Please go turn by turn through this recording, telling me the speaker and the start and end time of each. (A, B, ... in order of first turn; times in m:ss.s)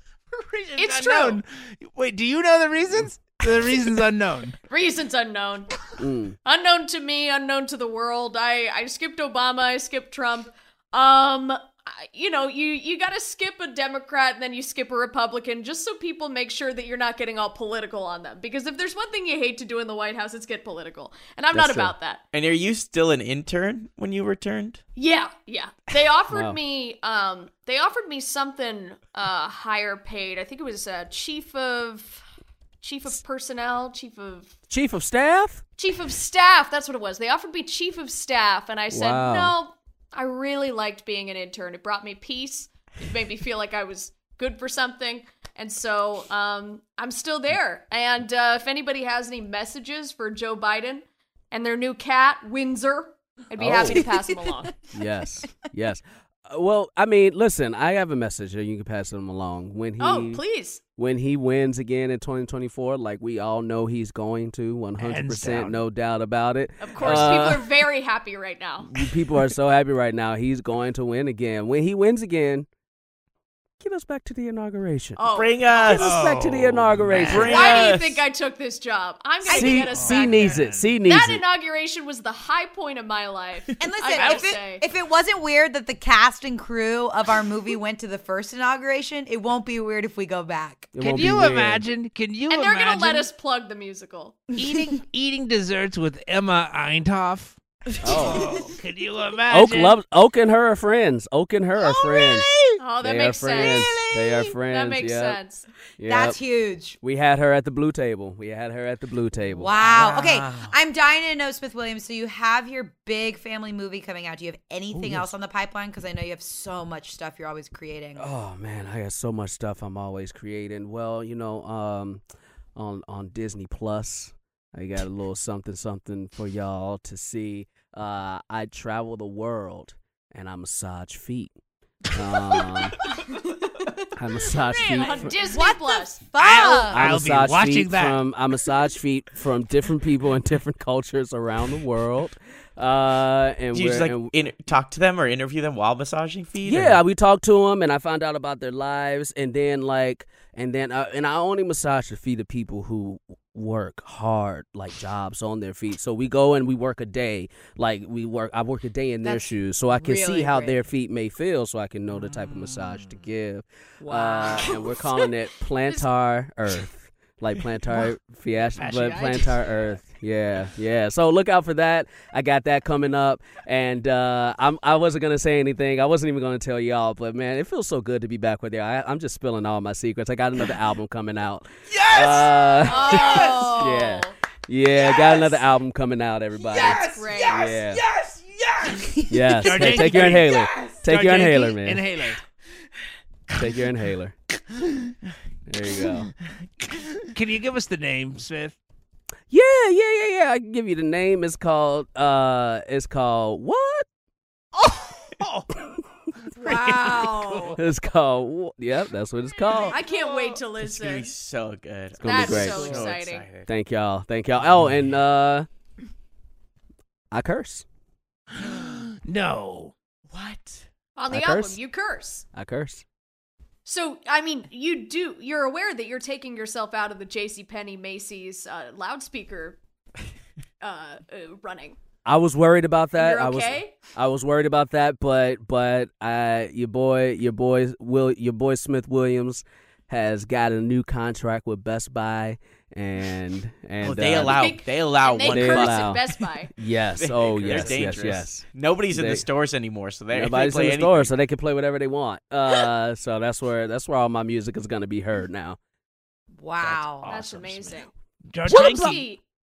0:00.3-0:04.6 A
0:00.8-0:01.4 B
0:04.7-0:05.7 B
0:06.0-0:06.4 C
0:06.4-0:22.2 B
0:21.5-0:21.9 C
0:22.3-0:24.8 D
0:25.0-0:32.2 B
0:26.3-0:26.6 C
0:32.8-0:34.5 B
0:34.7-0:35.6 C
0:35.8-0:54.7 B
0:38.9-0:39.5 C
0:53.6-0:54.0 C
0:53.9-0:54.5 E
0:54.9-1:00.4 C
1:00.0-1:00.8 B
1:01.0-1:07.7 C
1:05.0-1:05.8 A
1:06.8-1:09.1 B
1:07.0-1:07.6 A
1:08.8-1:12.7 C
1:13.8-1:15.2 C
1:15.2-1:16.0 B
1:15.3-1:16.1 D
1:15.8-1:17.8 C
1:16.0-1:17.7 A
1:17.1-1:18.2 D
1:17.3-1:24.8 B
1:19.4-1:19.8 E
1:19.5-1:21.4 C
1:19.9-1:20.9 A
1:23.8-1:30.9 E
1:30.9-1:31.8 C
1:31.0-1:33.3 A
1:32.5-1:34.4 B
1:34.5-1:40.0 A
1:38.0-1:38.6 C
1:38.3-1:38.6 E
1:39.5-1:42.5 C
1:42.1-1:42.8 A
1:42.8-1:45.6 B
1:43.0-1:45.4 C
1:46.0-1:46.4 C
1:46.0-1:47.0 E
1:47.0-1:49.8 C
1:49.5-1:58.2 E
1:49.8-1:50.7 D
1:54.9-1:55.3 C
1:58.2-2:02.2 C
2:02.8-2:11.5 C
2:12.1-2:13.0 C
2:12.5-2:12.8 A
2:14.1-2:15.4 C
2:14.5-2:16.2 B
2:15.0-2:17.1 E
2:16.4-2:18.2 A
2:16.9-2:24.3 C
2:23.7-2:27.0 D
2:26.6-3:08.0 C
2:39.2-2:40.8 E
2:42.2-2:43.1 A
2:44.0-2:44.8 A
2:44.6-2:45.3 B
2:48.7-2:50.0 A
3:01.9-3:03.5 A
3:02.8-3:04.3 B
3:06.7-3:07.6 B
3:06.7-3:09.1 D
3:09.3-3:12.0 C
3:09.5-3:12.4 A
3:09.8-3:10.5 E
3:09.9-3:11.0 D
3:13.5-3:14.3 C
3:15.7-3:16.3 C
3:17.3-3:18.8 A
3:19.5-3:24.0 C
3:24.7-3:25.8 A
3:26.6-3:27.8 A
3:26.6-3:27.8 B
3:27.8-3:30.0 C
3:29.9-3:31.3 B
3:30.8-3:33.7 D
3:32.2-3:33.1 C
3:32.2-3:33.4 B
3:33.6-3:35.7 C
3:37.3-3:37.8 C
3:38.6-3:39.9 A
3:40.3-3:40.9 D
3:41.2-3:42.4 B
3:41.3-3:41.8 C
3:42.5-3:43.0 C
3:43.8-3:49.8 B
3:50.8-3:52.0 B
3:52.2-4:04.6 C
3:53.1-3:53.9 B
4:04.0-4:06.2 D
4:04.3-4:06.7 B
4:05.5-4:06.2 C
4:06.7-4:09.4 C
4:07.2-4:11.4 D
4:07.6-4:08.3 A
4:10.3-4:15.8 C
4:16.6-4:17.3 E
4:16.8-4:18.0 A
4:17.2-4:18.1 B
4:18.5-4:19.2 A
4:18.7-4:19.4 B
4:18.7-4:19.1 C